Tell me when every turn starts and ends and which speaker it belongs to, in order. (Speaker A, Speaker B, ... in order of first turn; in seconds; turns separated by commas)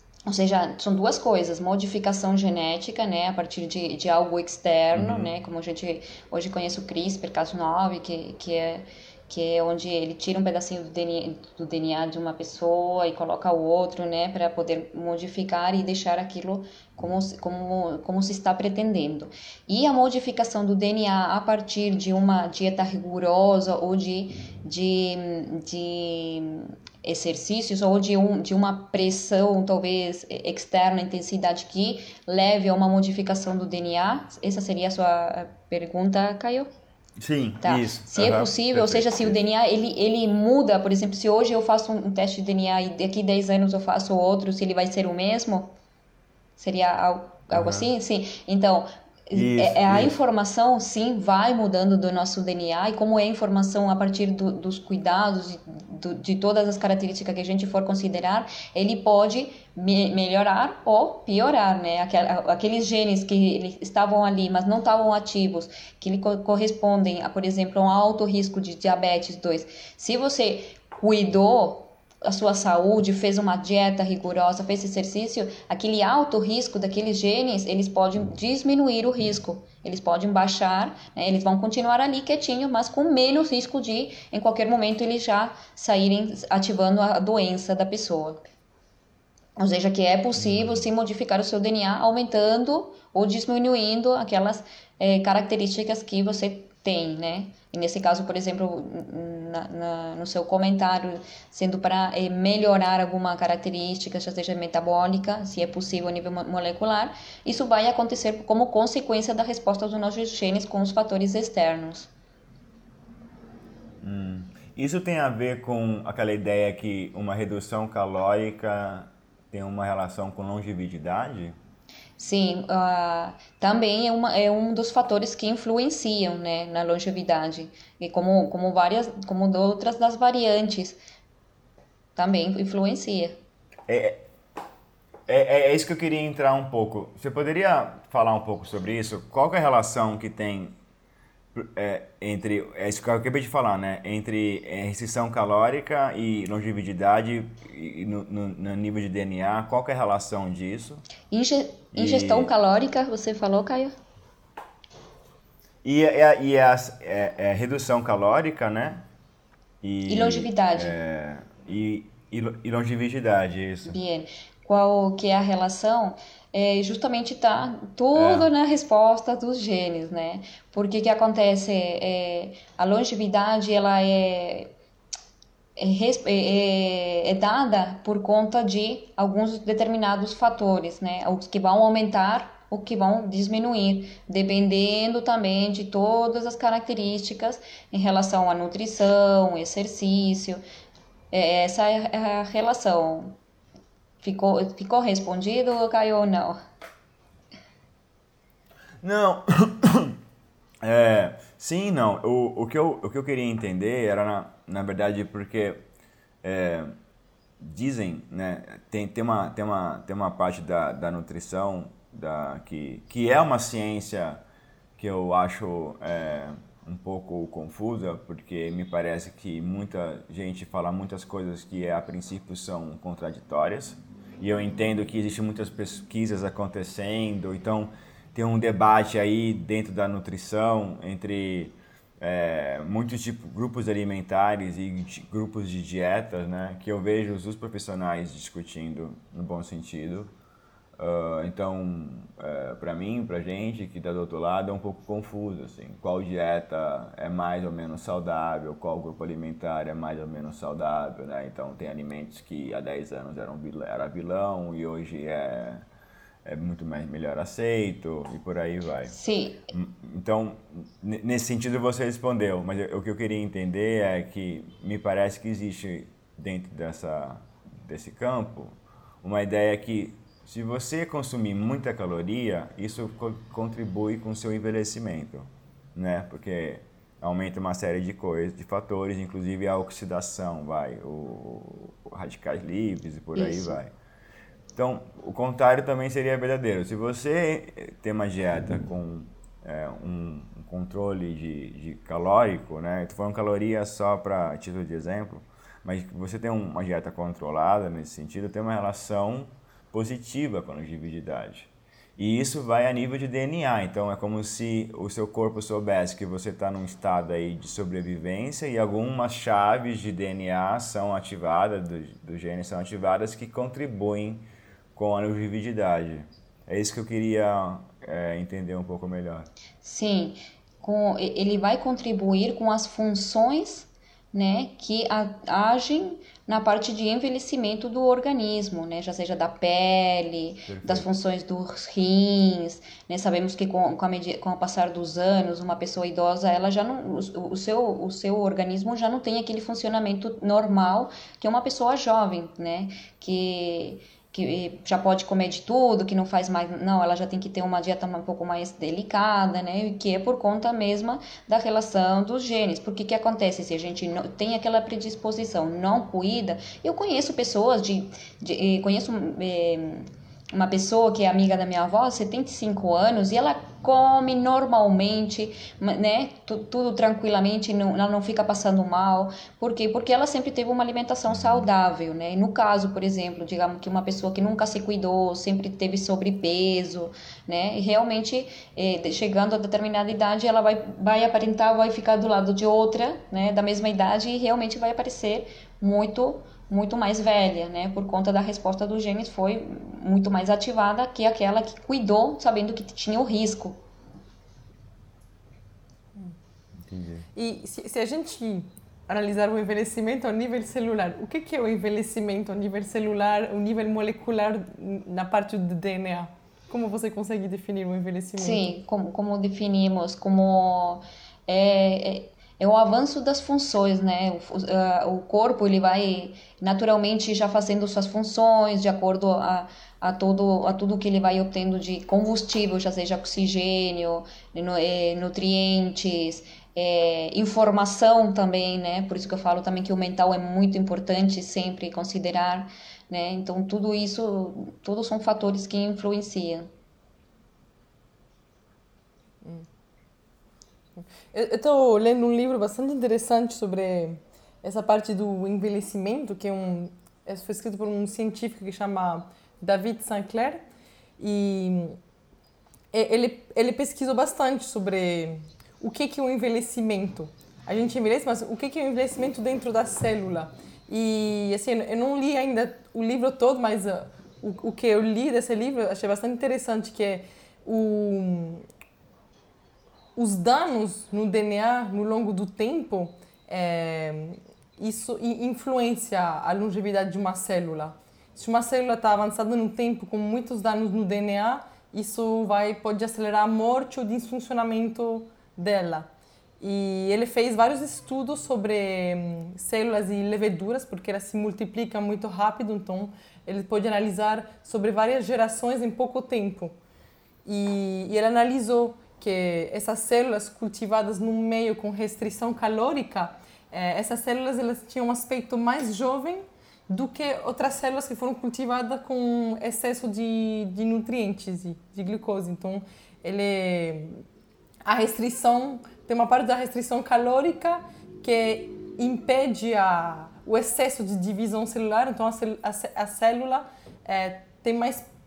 Speaker A: 0.3-36.7, Speaker B: 4.9-5.3, Speaker B: 37.2-39.4, Speaker A: 37.6-45.7, Speaker A: 46.6-88.4, Speaker B: 47.5-47.9, Speaker B: 49.3-50.1, Speaker A: 89.6-112.1, Speaker B: 90.4-90.8, Speaker B: 114.0-121.5, Speaker A: 122.2-131.0, Speaker A: 132.2-133.4, Speaker B: 133.9-134.2, Speaker B: 135.3-140.8, Speaker B: 141.5-151.0, Speaker A: 151.3-153.9, Speaker B: 151.9-152.5, Speaker B: 155.8-159.1, Speaker B: 159.8-164.0, Speaker A: 160.1-160.9, Speaker A: 163.9-174.7, Speaker B: 168.1-168.5, Speaker A: 175.8-190.6, Speaker A: 191.3-193.4, Speaker A: 194.2-196.6, Speaker B: 199.0-200.2, Speaker B: 200.8-205.8, Speaker B: 206.4-206.9, Speaker B: 207.6-214.4, Speaker B: 215.0-240.3, Speaker B: 241.0-255.8, Speaker B: 256.4-259.2, Speaker A: 259.1-259.7, Speaker B: 259.7-283.9, Speaker A: 283.4-283.8, Speaker B: 284.8-319.5, Speaker A: 319.8-393.8, Speaker B: 330.6-331.1, Speaker B: 396.8-397.3, Speaker C: 397.4-408.8, Speaker A: 408.4-436.7, Speaker C: 441.0-450.6, Speaker C: 451.2-452.0, Speaker C: 452.9-468.6, Speaker C: 470.1-486.1, Speaker C: 486.6-496.7, Speaker C: 497.4-514.2, Speaker C: 514.9-525.0